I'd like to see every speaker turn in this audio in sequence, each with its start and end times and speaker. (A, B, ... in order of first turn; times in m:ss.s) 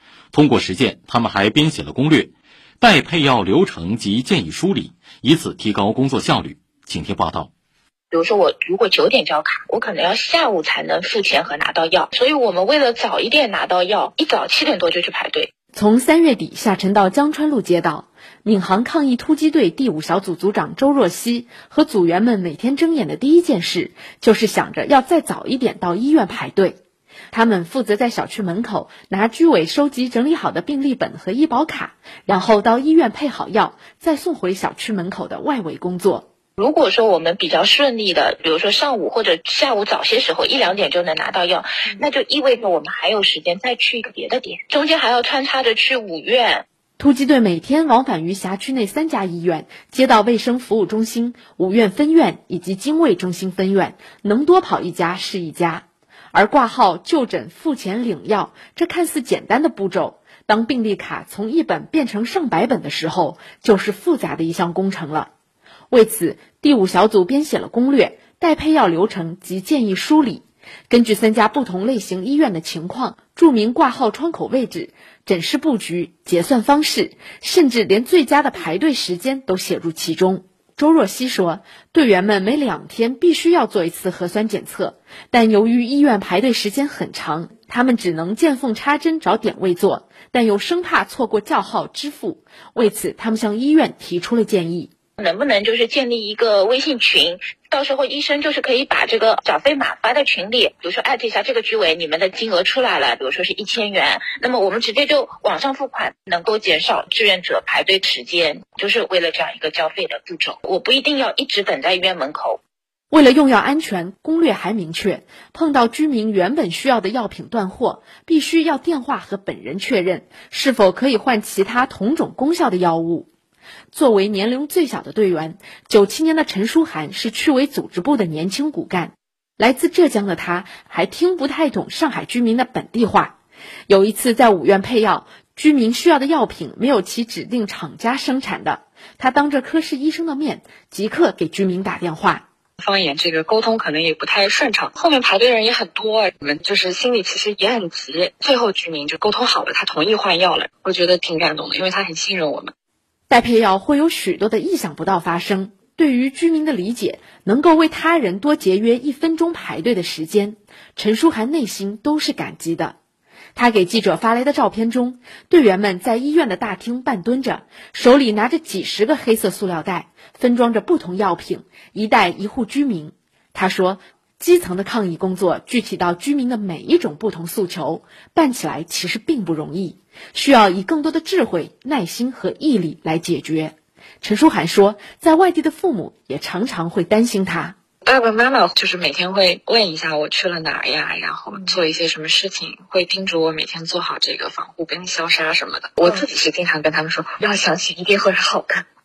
0:00.3-0:07.5 A
0:08.1-0:15.5 B
0:15.7-0:26.8 C
0:27.3-0:36.3 C
0:36.6-0:46.6 B
0:47.0-1:05.3 C
1:05.9-1:34.9 C
1:35.2-1:52.6 B
1:53.1-2:03.3 C
2:03.9-2:13.4 C
2:13.9-2:22.4 C
2:22.8-2:32.7 D
2:33.3-2:43.0 C
2:43.6-3:07.8 C
3:08.0-3:18.8 D